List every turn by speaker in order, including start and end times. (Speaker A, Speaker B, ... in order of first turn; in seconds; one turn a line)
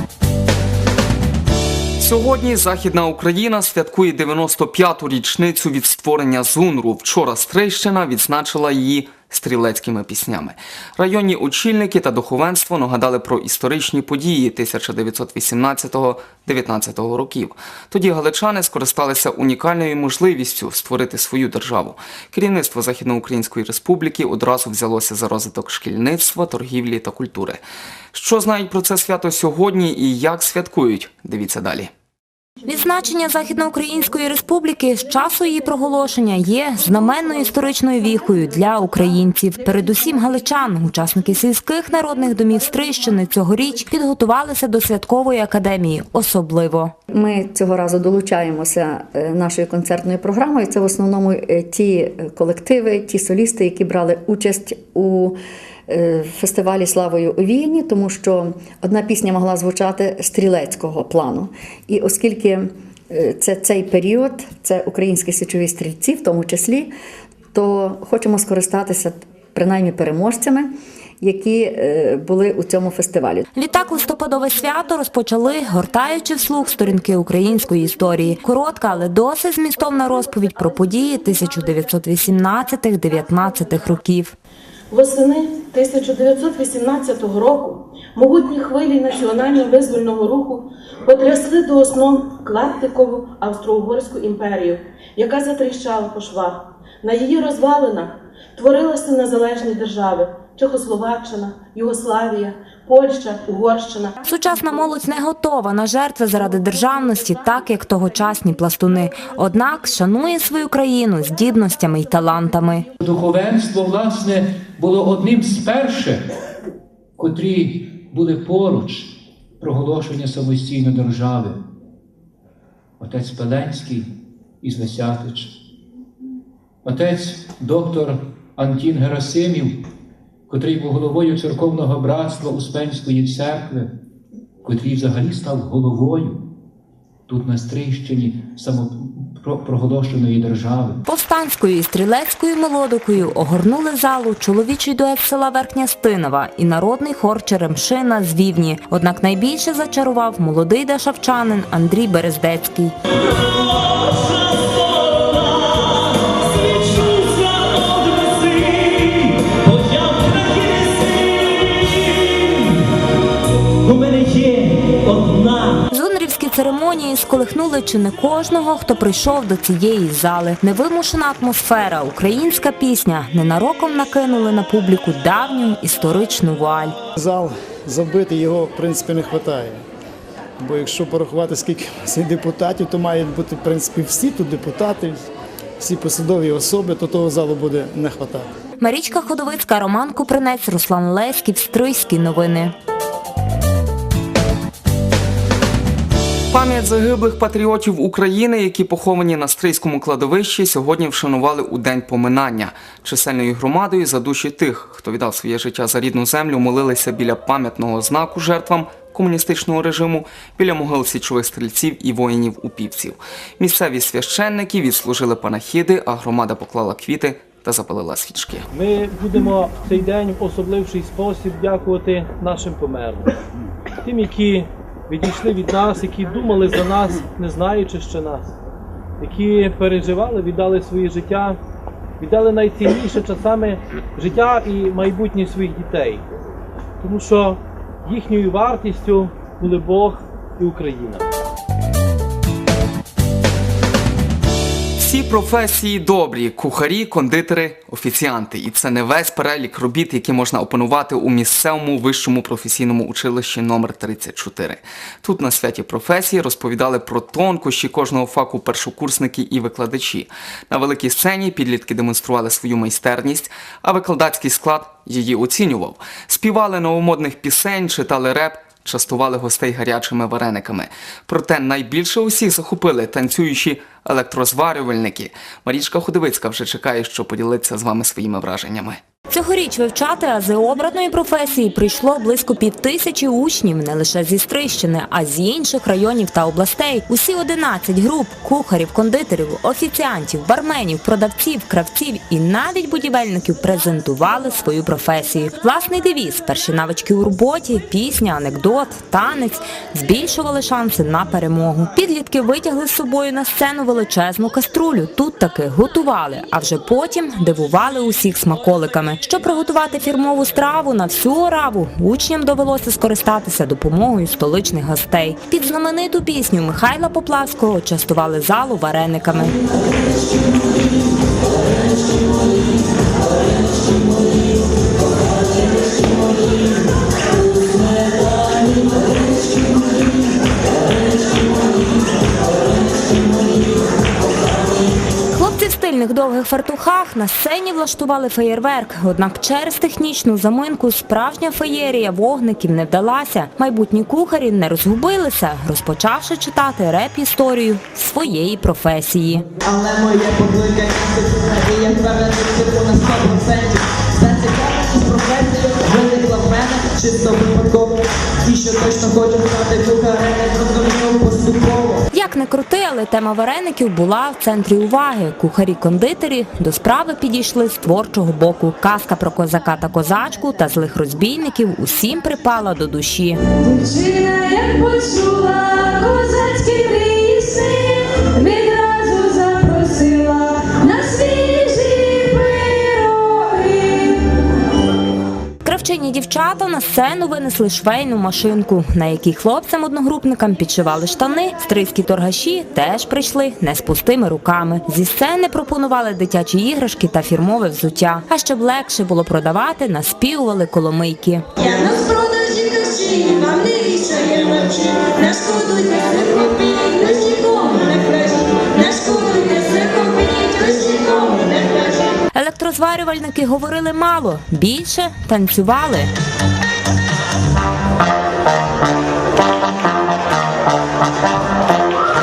Speaker A: 2.0-27.6
Speaker A: 28.1-31.9
Speaker B: 32.6-46.9
Speaker C: 47.1-66.9
Speaker C: 67.5-73.4
Speaker B: 73.5-84.3
Speaker D: 84.9-104.2
Speaker B: 104.2-112.8
Speaker E: 113.0-116.2
Speaker E: 117.2-121.6
Speaker E: 123.0-124.1
Speaker E: 124.6-125.5
Speaker E: 126.8-129.8
Speaker E: 130.5-133.9
Speaker E: 134.6-136.4
Speaker E: 137.3-141.0
Speaker B: 141.0-152.9
Speaker B: 165.9-176.9
Speaker F: 177.2-179.8
Speaker F: 180.6-185.2
Speaker F: 185.8-188.5
Speaker B: 188.8-192.7
Speaker A: 196.5-218.7
Speaker G: 218.7-223.3
Speaker G: 224.0-228.5
Speaker G: 229.2-231.6
Speaker G: 232.2-236.2
Speaker G: 237.0-241.2
Speaker A: 245.0-279.0
Speaker B: 279.3-319.6
Speaker B: 335.3-349.4
Speaker H: 349.6-362.0
Speaker B: 362.1-373.4
Speaker I: 373.6-384.2
Speaker B: 385.6-401.5
Speaker H: 404.4-405.2
Speaker I: 405.6-405.8
Speaker H: 406.2-406.5
Speaker H: 407.7-409.8
Speaker H: 411.2-411.8
Speaker B: 412.3-416.1